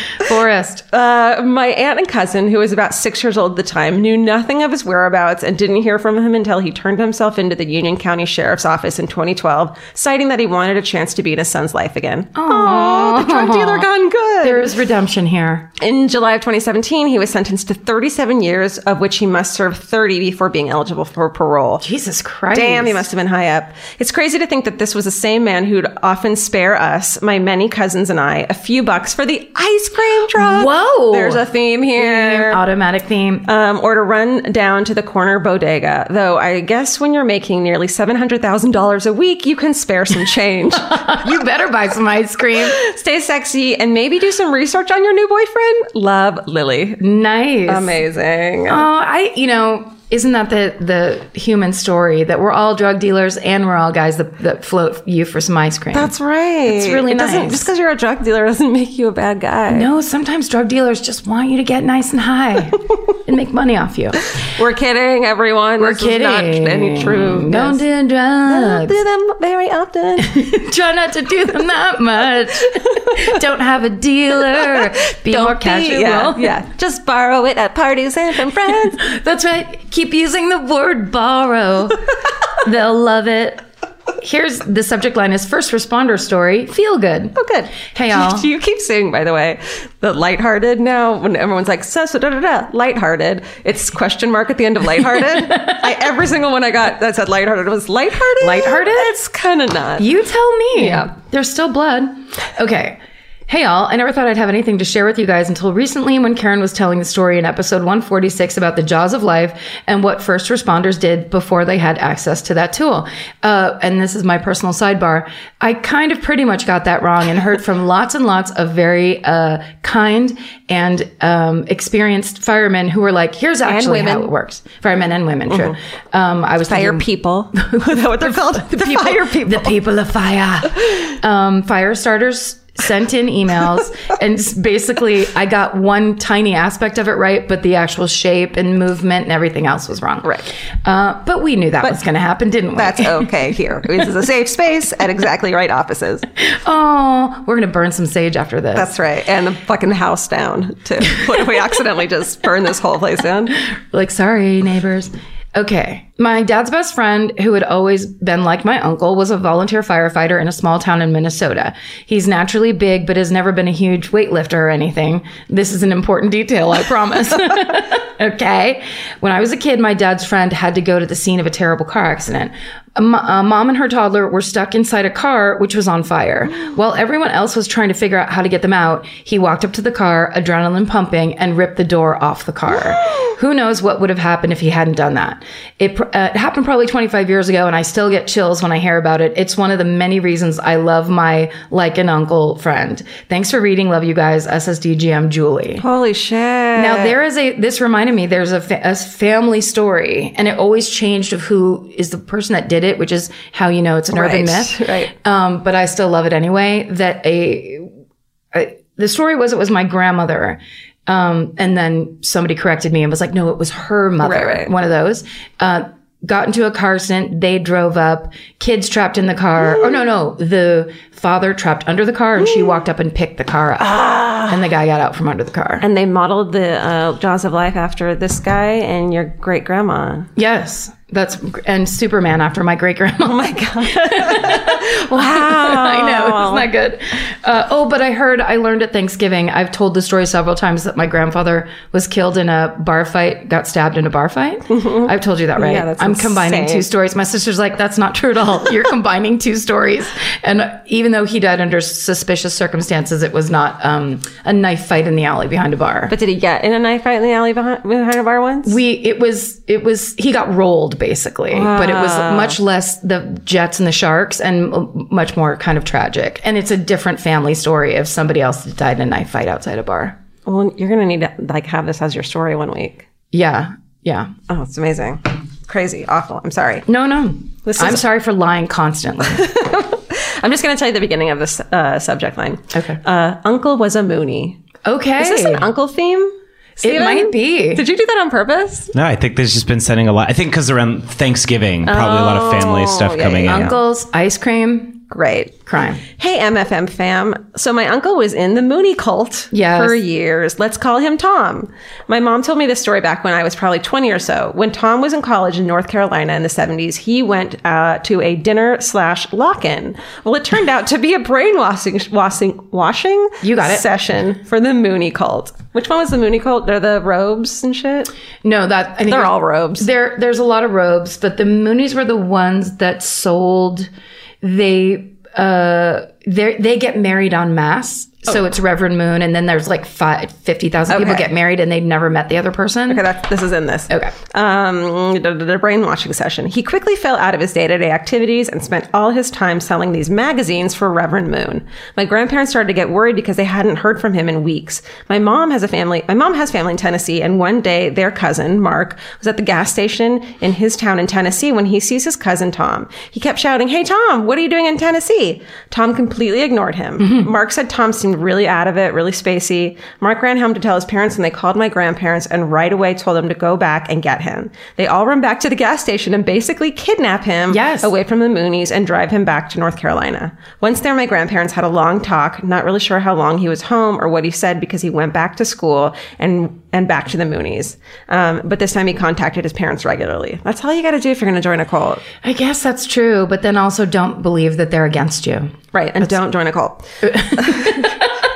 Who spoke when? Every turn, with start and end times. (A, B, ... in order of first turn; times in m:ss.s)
0:00.2-0:00.8 A
0:00.9-0:14.7 B
0:12.4-0:13.9 A
0:14.4-0:15.7 A
0:15.8-0:21.8 B
0:21.8-0:23.1 A
0:22.5-0:32.6 B
0:30.4-0:31.4 A
0:32.0-0:33.4 A
0:33.4-0:41.3 B
0:40.8-0:42.8 A
0:42.6-0:47.0 B
0:47.0-0:48.0 A
0:47.7-0:48.8 B
0:48.7-0:56.1 A
0:55.9-0:59.9 B
0:56.7-0:57.7 A
0:59.7-1:04.2 A
1:04.4-1:07.8 B
1:05.8-1:09.0 A
1:08.5-1:10.4 B
1:10.2-1:16.6 A
1:14.8-1:19.0 B
1:19.0-1:22.0 A
1:22.6-1:23.6 A
1:24.2-1:28.5 A
1:27.4-1:40.1 B
1:35.4-1:35.9 A
1:38.4-1:39.1 A
1:40.0-2:07.0 A
1:40.8-1:41.1 B
2:03.6-2:04.3 B
2:05.5-2:05.8 B
2:06.7-2:09.8 B
2:07.6-2:20.3 A
2:20.2-2:20.5 B
2:20.8-2:23.3 A
2:22.8-2:26.2 B
2:26.5-2:28.9 A
2:28.8-2:33.6 B
2:33.9-3:15.8 A
3:15.8-3:17.2 B
3:16.8-3:27.9 A
3:24.1-3:25.1 B
3:28.5-3:45.9 A
3:34.2-3:34.7 B
3:43.8-3:44.6 B
3:45.8-3:50.3 B
3:50.4-4:16.1 A
3:53.2-3:56.7 B
4:04.7-4:06.9 B
4:16.1-4:18.8 B
4:18.6-4:30.2 A
4:21.5-4:22.6 B
4:30.4-4:33.1 B
4:33.3-4:34.3 A
4:34.5-4:36.9 B
4:36.9-4:39.5 A
4:37.6-4:38.0 B
4:39.3-4:44.6 B
4:42.7-4:43.0 A
4:44.8-4:45.6 A
4:45.2-4:48.9 B
4:46.8-4:47.8 A
4:48.9-4:53.8 C
4:51.9-4:53.8 B
4:53.5-4:55.0 A
4:55.1-4:55.6 B
4:55.6-4:56.0 A
4:56.2-5:18.1 B
4:59.5-5:00.0 A
5:13.4-5:13.9 A
5:18.4-5:23.9 A
5:19.1-5:19.9 B
5:24.4-5:33.0 A
5:30.9-5:31.3 B
5:32.9-6:22.0 B
5:57.0-5:57.3 A
6:07.5-6:07.9 A
6:22.2-6:26.1 A
6:25.7-6:27.9 B
6:27.0-6:28.1 A